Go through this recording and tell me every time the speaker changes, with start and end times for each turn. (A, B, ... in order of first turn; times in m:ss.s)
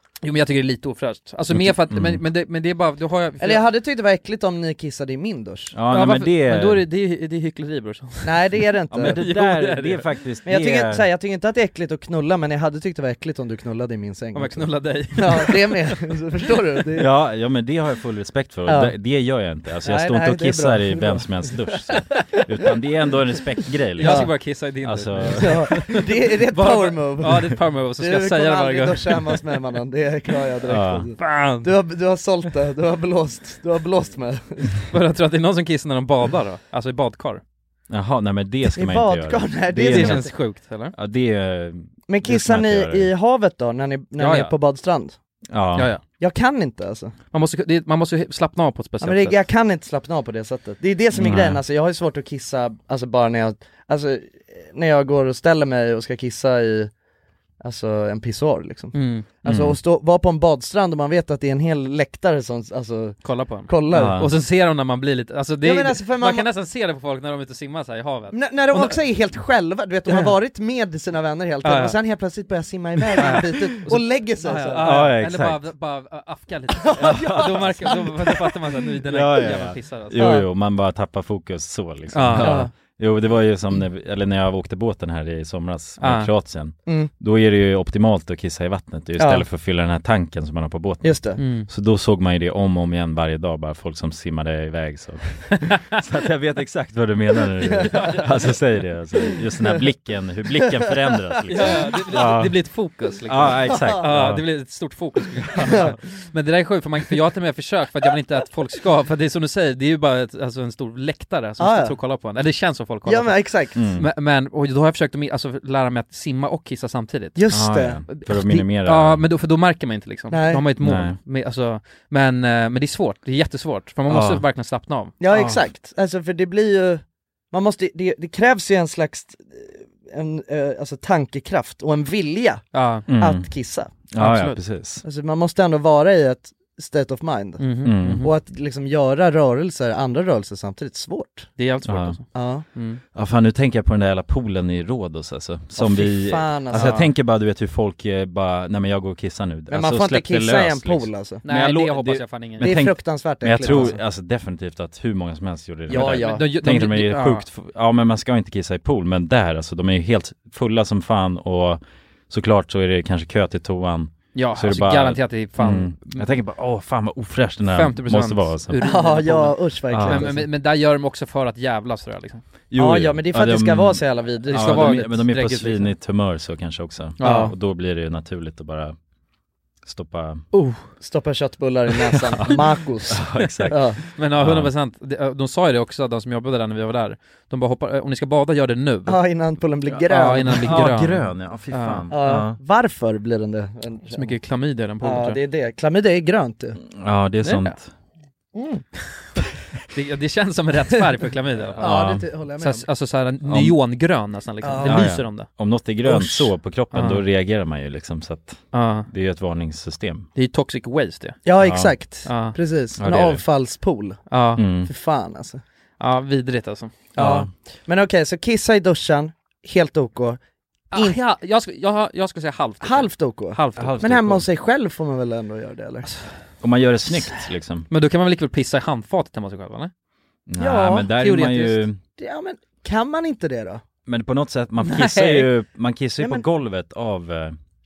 0:00.2-0:03.6 A
0:01.5-0:02.2 B
0:03.4-0:05.8 C
0:05.7-0:06.8 B
0:05.9-0:10.1 A
0:08.2-0:09.2 C
0:08.9-0:11.1 B
0:10.4-0:17.1 C
0:14.3-0:16.0 A
0:17.0-0:25.7 B
0:18.7-0:18.9 C
0:19.8-0:21.3 C
0:24.0-0:24.3 C
0:24.0-0:29.4 A
0:25.4-0:34.8 C
0:30.7-0:31.1 B
0:31.2-0:31.7 A
0:34.9-0:37.4 A
0:37.9-0:40.3 B
0:38.8-0:40.4 C
0:39.8-0:40.9 A
0:40.9-0:43.1 B
0:42.1-0:45.2 C
0:44.2-0:44.5 A
0:45.5-0:45.9 B
0:45.8-0:46.0 A
0:46.2-0:47.1 C
0:47.3-0:49.4 A
0:49.0-0:56.9 C
0:51.2-0:51.6 B
0:57.6-1:04.2 C
0:58.9-0:59.3 A
0:59.4-0:59.8 B
1:03.2-1:09.0 A
1:03.9-1:04.3 B
1:05.6-1:06.5 C
1:08.3-1:15.1 C
1:10.1-1:10.3 A
1:11.6-1:12.0 A
1:13.2-1:20.2 A
1:14.8-1:15.6 B
1:16.9-1:18.4 C
1:17.0-1:17.9 B
1:19.1-1:42.6 B
1:20.2-1:20.5 C
1:22.1-1:22.7 A
1:22.4-1:22.7 C
1:26.0-1:26.3 A
1:29.2-1:29.5 C
1:31.0-1:31.4 C
1:31.4-1:31.7 A
1:37.7-1:38.6 A
1:41.5-1:57.4 A
1:41.5-1:41.8 C
1:43.3-1:44.4 B
1:43.7-1:44.1 C
1:45.6-1:45.9 C
1:51.6-1:52.0 C
1:53.1-1:53.8 C
1:53.8-1:54.1 B
1:57.4-1:58.6 C
1:57.5-1:59.2 B
1:58.8-2:05.2 A
2:00.3-2:00.6 C
2:00.8-2:01.2 B
2:04.1-2:04.4 B
2:05.2-2:13.9 C
2:05.3-2:05.6 B
2:12.7-2:13.1 A
2:13.1-2:13.5 B
2:14.1-2:15.0 B
2:14.2-2:14.6 A
2:15.0-2:17.7 C
2:17.6-2:18.4 A
2:17.8-2:18.2 B
2:18.2-2:21.5 C
2:21.6-2:23.0 A
2:21.8-2:22.2 B
2:22.4-2:22.6 C
2:23.1-2:48.8 B
2:25.8-2:27.1 C
2:26.7-2:27.1 A
2:29.7-2:31.4 C
2:31.4-2:32.8 A
2:32.6-2:34.0 C
2:33.7-2:33.9 A
2:35.9-2:36.5 C
2:35.9-2:37.5 A
2:44.3-2:46.3 A
2:47.7-2:52.4 A
2:48.8-2:50.5 C
2:49.9-2:50.3 B
2:52.7-2:59.0 B
2:52.8-2:55.0 C
2:54.5-2:55.9 A
2:57.2-2:57.5 A
2:57.2-2:57.5 C
2:59.9-3:00.5 B
3:00.5-3:00.9 A
3:01.0-3:04.0 C
3:03.1-3:03.8 B
3:04.1-3:09.2 A
3:04.4-3:04.7 B
3:09.1-3:10.8 C
3:10.1-3:12.0 A
3:10.5-3:12.6 B
3:12.1-3:14.4 C
3:14.1-3:15.4 A
3:15.0-3:16.8 C
3:16.8-3:17.9 B
3:17.4-3:17.8 A
3:18.6-3:18.8 C
3:19.9-3:25.5 A
3:21.8-3:22.3 B
3:21.8-3:22.9 C
3:23.4-3:23.8 B
3:24.6-3:25.2 C
3:24.8-3:30.3 B
3:26.0-3:26.5 C
3:26.9-3:27.2 A
3:28.7-3:29.1 A
3:30.4-3:31.4 A
3:31.4-3:34.2 C
3:31.6-3:31.9 B
3:32.2-3:32.6 A
3:33.0-3:33.4 B
3:34.3-3:34.6 A
3:34.6-3:34.9 B
3:34.8-3:35.6 C
3:36.0-3:37.0 A
3:37.2-3:40.4 C
3:37.2-3:37.5 B
3:40.9-3:44.0 A
3:40.9-3:41.2 C
3:42.8-3:46.1 C
3:43.8-3:44.4 B
3:46.6-3:47.9 B
3:47.9-3:49.9 A
3:50.5-3:52.0 B
3:50.6-3:51.1 C
3:51.2-3:51.8 A
3:52.2-3:53.8 C
3:54.1-3:57.6 B
3:54.8-3:55.5 C